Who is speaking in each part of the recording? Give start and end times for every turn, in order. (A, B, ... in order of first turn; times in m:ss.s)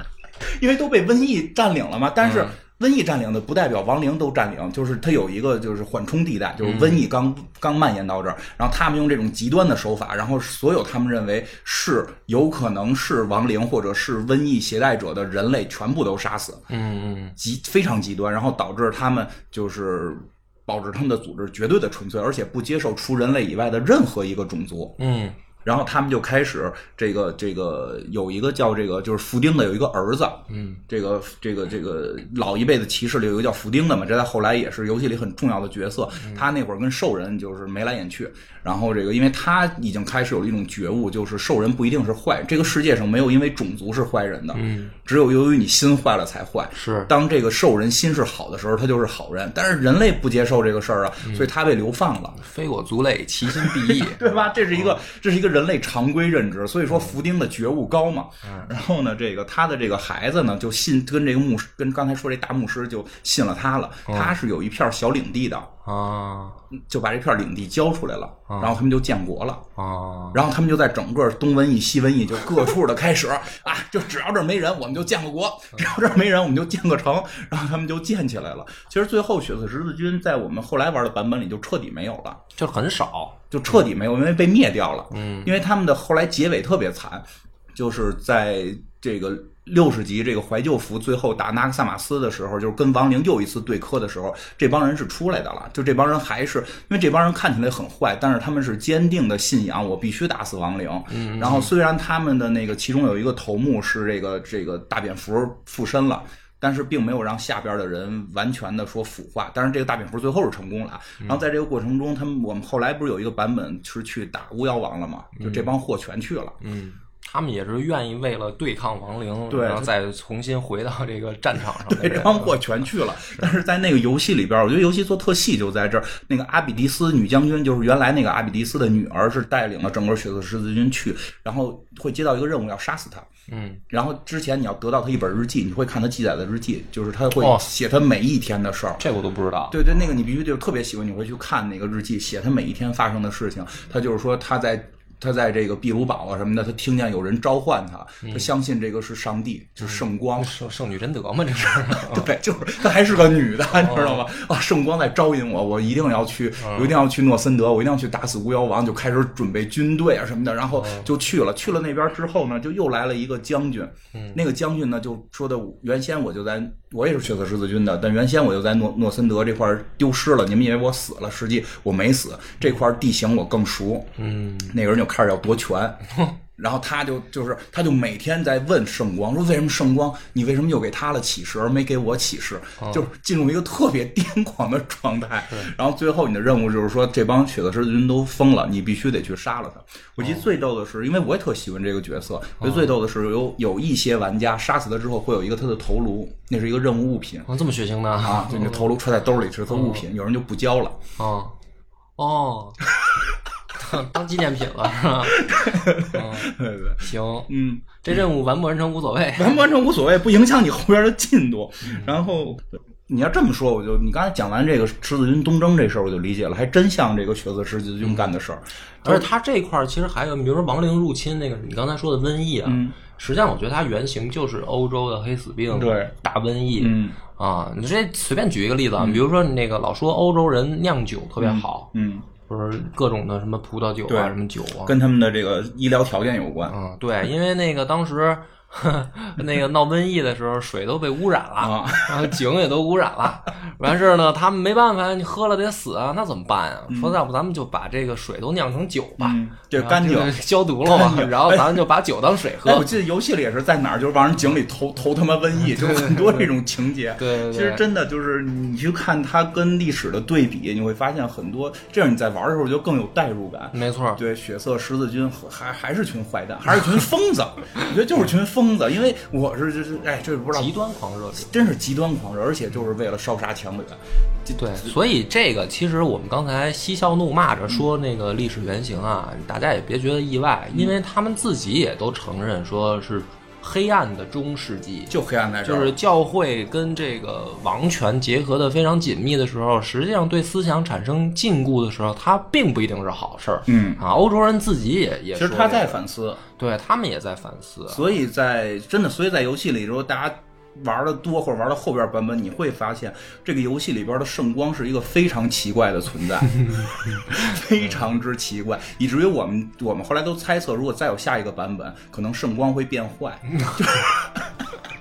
0:00.4-0:16.6 A
0:02.2-0:02.5 B
0:06.6-0:07.0 B
0:16.7-0:17.3 B
0:17.4-0:25.0 A
0:25.0-0:25.4 B
0:25.6-0:52.4 A
0:30.5-0:30.8 B
0:36.2-0:36.5 B
0:44.5-0:44.9 B
0:46.8-0:47.1 B
0:51.2-0:51.5 B
0:52.4-0:55.0 B
0:53.4-1:05.7 A
0:56.9-0:57.2 B
0:58.4-0:58.7 B
1:04.1-1:04.4 B
1:05.8-1:06.6 B
1:06.7-1:09.6 A
1:08.5-1:08.8 B
1:09.8-1:10.4 B
1:10.3-1:22.4 A
1:22.6-1:23.8 B
1:23.5-1:56.6 A
1:25.1-1:25.5 B
1:41.1-1:41.7 B
1:55.3-1:55.7 B
1:56.6-2:02.5 B
1:59.5-1:59.9 A
2:01.8-2:13.3 A
2:13.5-2:13.8 B
2:13.9-2:19.0 A
2:17.4-2:17.6 B
2:19.0-2:19.8 B
2:19.7-2:30.5 A
2:28.2-2:28.5 B
2:29.8-2:32.3 B
2:31.9-2:54.1 A
2:33.7-2:34.3 B
2:36.6-2:37.0 B
2:40.8-2:41.1 B
2:44.1-2:44.4 B
2:54.2-2:54.8 B
2:54.7-2:56.0 A
2:56.6-3:17.5 A
3:12.6-3:12.9 B
3:17.5-3:18.9 B
3:18.2-3:21.0 A
3:19.7-3:20.0 B
3:21.2-3:21.5 B
3:22.2-3:22.8 B
3:23.7-3:25.5 B
3:25.2-3:28.2 A
3:26.1-3:27.5 B
3:28.0-3:29.6 B
3:29.4-3:39.3 A
3:31.8-3:32.2 B
3:38.0-3:38.3 B
3:39.0-3:51.9 B
3:42.6-3:42.9 A
3:45.7-3:46.1 A
3:46.8-3:47.2 A
3:49.0-3:49.2 A
3:51.4-3:52.3 A
3:52.4-3:54.9 B
3:54.1-3:56.7 A
3:56.7-4:12.8 B
4:01.6-4:02.4 A
4:06.9-4:07.2 A
4:09.2-4:11.8 A
4:12.6-4:30.7 A
4:15.6-4:16.5 B
4:17.2-4:17.8 B
4:23.7-4:24.2 B
4:30.5-4:31.5 B
4:31.4-4:34.9 A
4:34.6-4:45.1 B
4:45.1-4:46.0 A
4:45.6-4:56.0 B
4:53.7-4:54.0 A
4:55.3-4:56.4 A
4:56.6-4:58.1 B
4:57.9-5:14.7 A
5:06.6-5:07.6 B
5:13.5-5:14.0 B